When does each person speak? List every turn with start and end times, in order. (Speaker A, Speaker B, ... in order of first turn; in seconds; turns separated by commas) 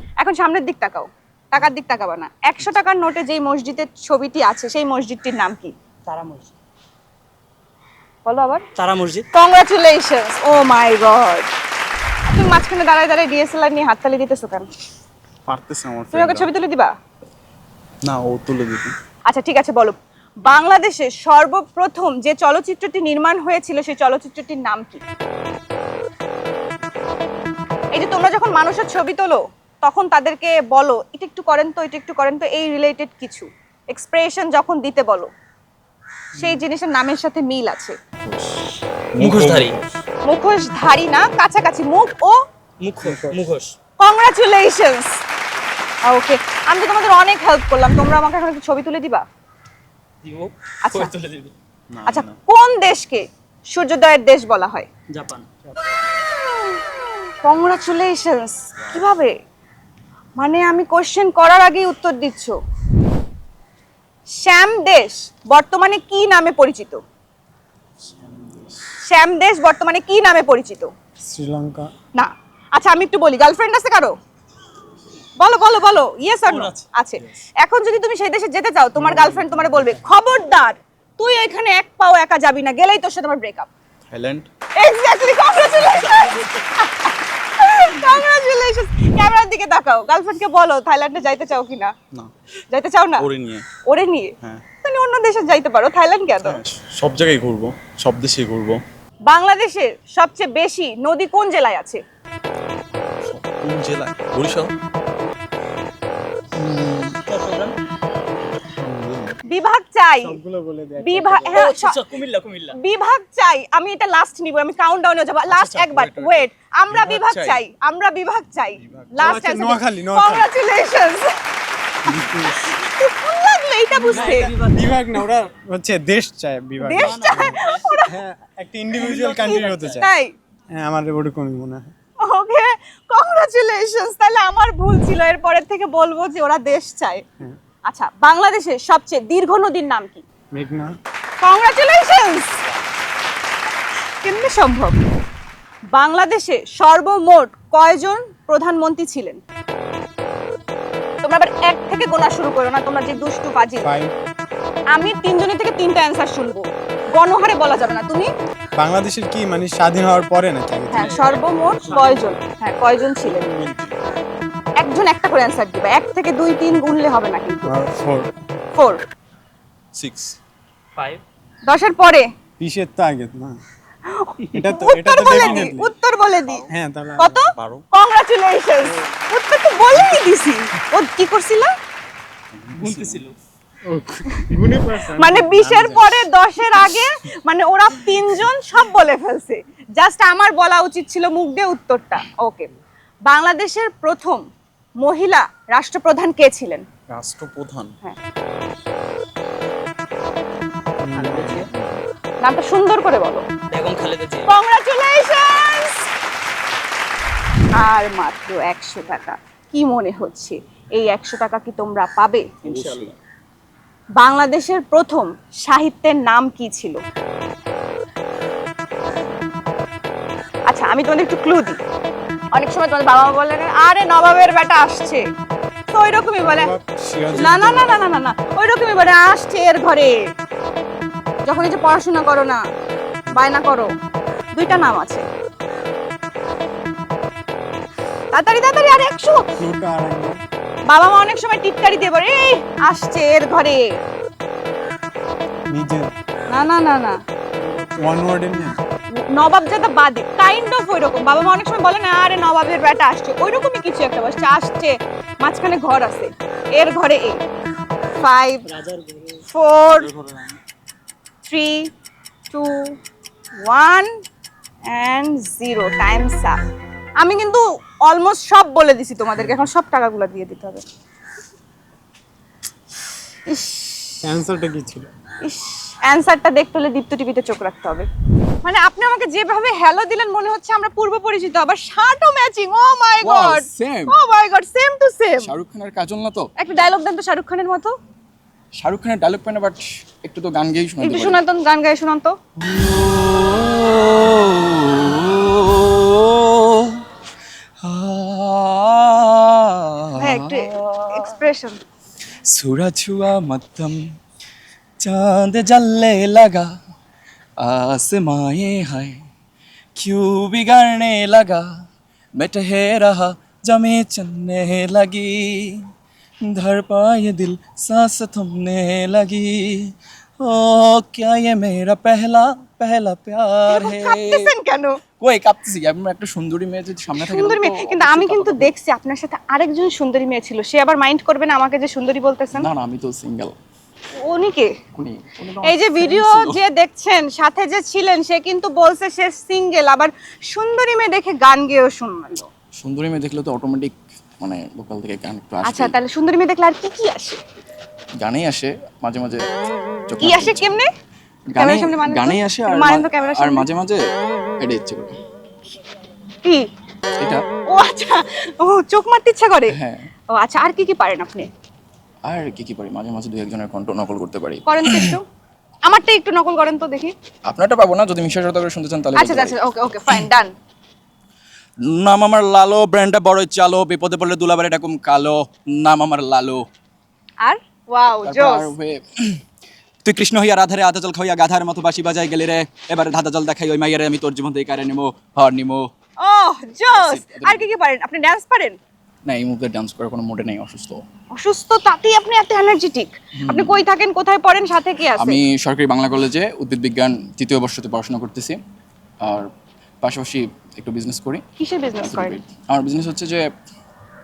Speaker A: 0.2-5.7, Speaker B: 6.1-6.5, Speaker A: 8.2-8.7, Speaker B: 8.8-9.3, Speaker A: 9.3-11.5, Speaker A: 12.3-14.7, Speaker C: 15.5-16.5, Speaker A: 16.1-16.9, Speaker C: 18.0-18.9, Speaker A: 19.3-25.0, Speaker A: 27.9-35.3, Speaker A: 36.4-38.0, Speaker C: 39.2-39.8, Speaker B: 39.2-39.8, Speaker A: 40.2-42.4, Speaker B: 42.8-43.7, Speaker A: 44.0-45.1, Speaker A: 46.1-49.2, Speaker B: 50.2-51.5, Speaker A: 50.8-51.1, Speaker C: 51.9-52.3, Speaker A: 52.1-54.9, Speaker B: 55.1-55.5, Speaker A: 57.4-59.4, Speaker A: 60.4-62.6, Speaker A: 64.4-67.0, Speaker A: 69.1-70.9, Speaker D: 71.2-71.9, Speaker A: 72.2-74.2, Speaker A: 75.4-83.7, Speaker B: 76.5-76.8, Speaker D: 79.0-79.8, Speaker C: 84.1-84.5, Speaker A: 84.8-91.9, Speaker B: 86.0-86.5, Speaker A: 92.7-93.3, Speaker C: 93.2-93.7, Speaker A: 93.9-96.6, Speaker C: 96.4-98.8, Speaker A: 99.3-102.0, Speaker C: 102.9-104.7, Speaker D: 106.6-107.2, Speaker B: 107.3-107.7, Speaker C: 108.8-109.4, Speaker A: 109.5-110.4, Speaker D: 110.2-111.6, Speaker A: 111.0-112.0, Speaker B: 111.5-112.8, Speaker A: 112.8-121.3, Speaker C: 115.5-117.6, Speaker C: 118.8-119.4, Speaker D: 119.2-120.5, Speaker D: 122.1-122.6, Speaker A: 122.6-124.5, Speaker B: 124.0-124.8, Speaker D: 124.3-130.1, Speaker A: 126.8-128.1, Speaker B: 127.0-128.0, Speaker B: 129.0-130.0, Speaker A: 129.4-130.3, Speaker D: 130.8-131.9, Speaker A: 132.2-137.2, Speaker A: 137.9-140.2, Speaker D: 140.6-140.9, Speaker A: 141.4-142.5, Speaker A: 144.2-145.0, Speaker A: 145.9-149.4, Speaker A: 151.2-153.9, Speaker D: 153.8-154.1, Speaker A: 154.9-158.3, Speaker D: 158.8-161.3, Speaker A: 160.9-163.5, Speaker B: 160.9-162.3, Speaker C: 163.3-163.9, Speaker A: 164.8-167.7, Speaker D: 167.7-168.3, Speaker C: 169.9-170.4, Speaker A: 171.7-172.3, Speaker D: 172.6-173.6, Speaker A: 174.1-176.7, Speaker D: 174.5-175.9, Speaker C: 175.3-175.7, Speaker D: 176.7-177.4, Speaker A: 177.2-181.7, Speaker C: 177.6-177.8, Speaker B: 182.8-183.3, Speaker C: 182.8-183.2, Speaker D: 183.9-186.1, Speaker A: 185.2-192.7, Speaker A: 193.3-194.4, Speaker A: 195.0-196.9, Speaker C: 197.1-197.9, Speaker D: 201.0-201.5, Speaker B: 201.2-201.7, Speaker C: 201.2-202.0, Speaker A: 202.4-203.4, Speaker B: 203.7-204.5, Speaker A: 204.5-206.1, Speaker A: 207.8-212.8, Speaker B: 212.6-213.1, Speaker A: 214.2-217.0, Speaker A: 220.7-221.8, Speaker A: 222.5-225.2, Speaker A: 225.9-226.7, Speaker D: 226.4-228.0, Speaker A: 227.3-230.2, Speaker A: 231.4-232.6, Speaker A: 233.3-233.9, Speaker A: 234.5-235.2, Speaker A: 238.3-239.5, Speaker D: 239.6-240.4, Speaker A: 240.9-243.8, Speaker D: 245.7-246.1, Speaker A: 246.5-247.2, Speaker D: 247.8-248.8, Speaker A: 249.2-257.4, Speaker A: 258.2-258.6, Speaker B: 258.7-260.5, Speaker A: 259.5-260.1, Speaker A: 261.5-261.9, Speaker A: 262.5-263.0, Speaker A: 263.6-264.1, Speaker A: 264.9-266.6, Speaker A: 267.2-270.8, Speaker A: 273.5-274.2, Speaker D: 274.2-275.1, Speaker A: 275.4-278.1, Speaker A: 278.6-285.5, Speaker E: 283.2-284.1, Speaker E: 285.4-286.5, Speaker A: 286.6-287.9, Speaker E: 288.8-291.4, Speaker A: 291.0-292.4, Speaker E: 292.6-297.0, Speaker E: 297.8-301.4, Speaker A: 300.2-301.8, Speaker E: 302.5-304.0, Speaker E: 305.0-306.7, Speaker E: 307.6-309.2, Speaker E: 310.0-311.7, Speaker E: 312.4-315.8, Speaker E: 316.5-319.9, Speaker E: 320.4-324.5, Speaker A: 323.7-325.0, Speaker E: 325.2-328.7, Speaker A: 327.2-332.7, Speaker E: 332.6-333.6, Speaker A: 334.2-334.8, Speaker E: 334.9-336.6, Speaker A: 335.6-342.5, Speaker E: 342.8-346.0, Speaker A: 345.6-347.4, Speaker E: 348.2-349.4, Speaker E: 350.1-350.7, Speaker A: 350.2-350.9, Speaker E: 351.5-354.0, Speaker A: 351.6-353.7, Speaker E: 354.6-355.2, Speaker E: 357.2-357.4, Speaker A: 357.7-359.8, Speaker E: 359.7-360.1, Speaker A: 360.3-361.5, Speaker E: 362.2-365.2, Speaker A: 364.7-365.2, Speaker A: 365.9-367.1, Speaker E: 367.5-369.6, Speaker A: 369.1-370.5, Speaker E: 371.8-376.6, Speaker A: 377.4-378.7, Speaker E: 378.3-379.4, Speaker E: 380.1-385.9, Speaker A: 386.2-388.8, Speaker E: 386.9-387.7, Speaker E: 389.3-391.0, Speaker A: 391.3-395.4, Speaker E: 393.4-393.8, Speaker E: 395.2-398.6, Speaker E: 399.2-399.5, Speaker E: 400.0-401.4, Speaker A: 401.6-402.4, Speaker E: 402.0-403.5